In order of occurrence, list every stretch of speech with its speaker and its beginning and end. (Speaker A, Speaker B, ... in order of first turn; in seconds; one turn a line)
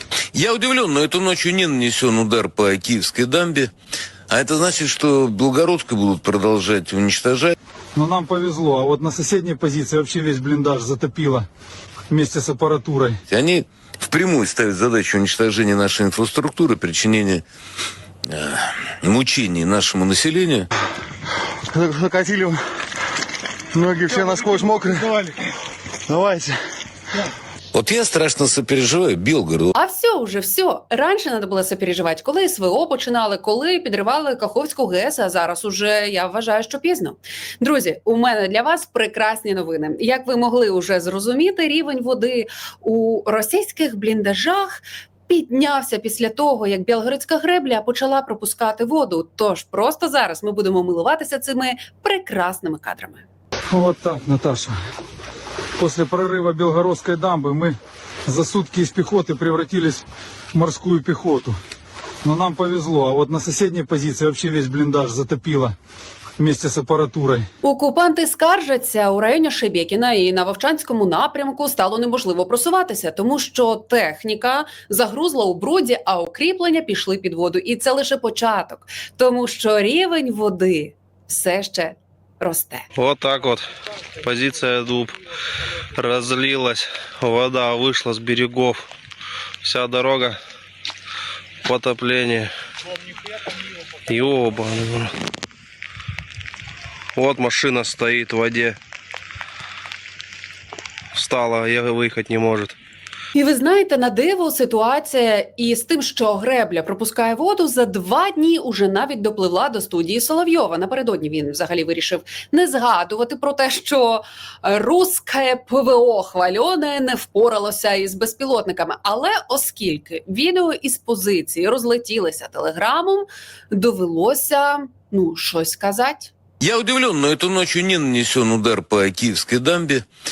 Speaker A: 0.3-3.7
Speaker A: 4.3-7.5
Speaker B: 7.9-11.5
Speaker B: 12.1-13.2
Speaker A: 13.3-17.4
Speaker A: 18.3-20.7
Speaker C: 21.9-22.4
Speaker C: 23.8-25.1
Speaker A: 27.7-29.7
Speaker D: 29.7-44.8
Speaker D: 45.3-53.2
Speaker B: 53.7-54.8
Speaker B: 55.8-61.6
Speaker B: 62.2-65.7
Speaker B: 66.4-67.5
Speaker D: 67.6-82.8
Speaker E: 83.0-83.7
Speaker E: 84.2-85.1
Speaker E: 86.0-88.8
Speaker E: 89.6-90.4
Speaker E: 91.6-92.5
Speaker E: 94.1-95.1
Speaker E: 97.2-98.8
Speaker E: 101.1-102.8
Speaker D: 103.3-126.3
Speaker A: 126.6-130.1